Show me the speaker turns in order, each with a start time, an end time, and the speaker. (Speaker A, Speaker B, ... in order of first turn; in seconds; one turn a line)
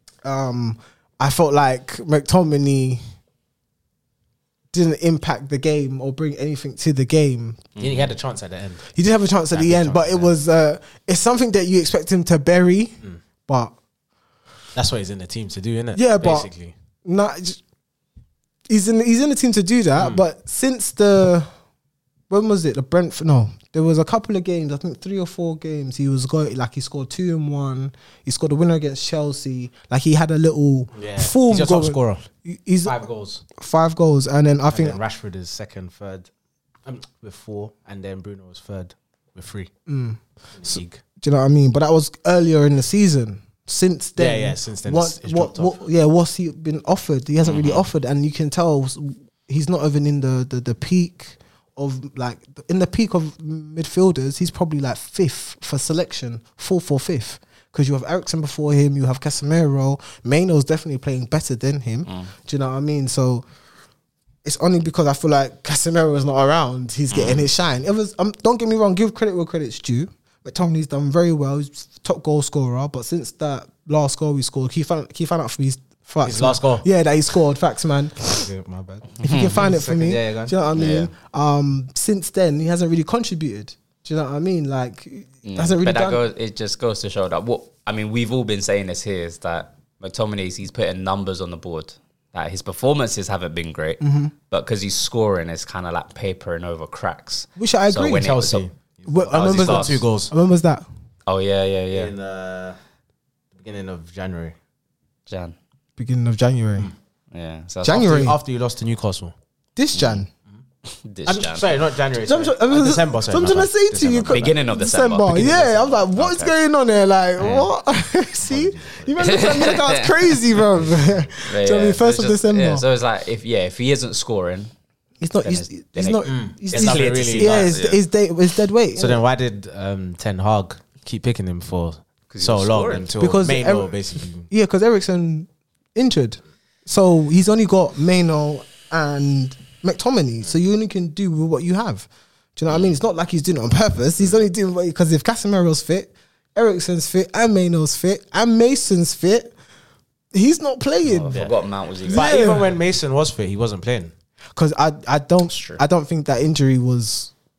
Speaker A: 0.2-3.0
Speaker A: 4.7-7.7
Speaker B: 7.8-8.1
Speaker C: 7.8-8.9
Speaker A: 8.9-13.7
Speaker C: 9.5-10.3
Speaker C: 14.8-16.7
Speaker A: 15.9-16.5
Speaker A: 17.1-17.6
Speaker A: 18.7-21.5
Speaker A: 22.3-33.0
Speaker C: 30.9-32.2
Speaker C: 32.9-33.4
Speaker A: 33.6-35.0
Speaker C: 34.7-36.3
Speaker C: 36.9-39.7
Speaker A: 39.9-63.5
Speaker C: 40.6-41.0
Speaker C: 44.2-45.8
Speaker B: 47.4-47.9
Speaker A: 64.4-78.5
Speaker B: 67.1-67.5
Speaker C: 76.2-76.9
Speaker C: 78.2-80.6
Speaker B: 79.2-79.6
Speaker A: 79.2-86.2
Speaker B: 80.8-81.1
Speaker B: 85.4-98.7
Speaker A: 94.0-94.3
Speaker A: 97.6-98.3
Speaker C: 98.1-100.3
Speaker A: 99.1-100.8
Speaker B: 99.3-100.0
Speaker B: 101.3-102.1
Speaker C: 101.9-102.8
Speaker C: 103.5-104.6
Speaker B: 105.3-105.6
Speaker A: 106.0-106.9
Speaker B: 107.3-108.0
Speaker A: 107.8-108.4
Speaker C: 107.8-109.3
Speaker A: 109.8-110.3
Speaker B: 109.9-110.2
Speaker B: 110.9-111.7
Speaker C: 111.3-114.6
Speaker A: 112.2-122.8
Speaker B: 114.3-116.5
Speaker B: 117.4-117.7
Speaker B: 118.5-120.4
Speaker B: 121.4-124.7
Speaker A: 125.2-129.2
Speaker B: 125.4-128.0
Speaker C: 126.3-127.8
Speaker C: 129.0-134.5
Speaker B: 132.3-133.1
Speaker A: 133.2-149.5
Speaker A: 150.3-151.4
Speaker B: 151.1-152.5
Speaker C: 152.1-154.1
Speaker A: 152.1-152.7
Speaker A: 154.6-157.3
Speaker B: 155.5-155.8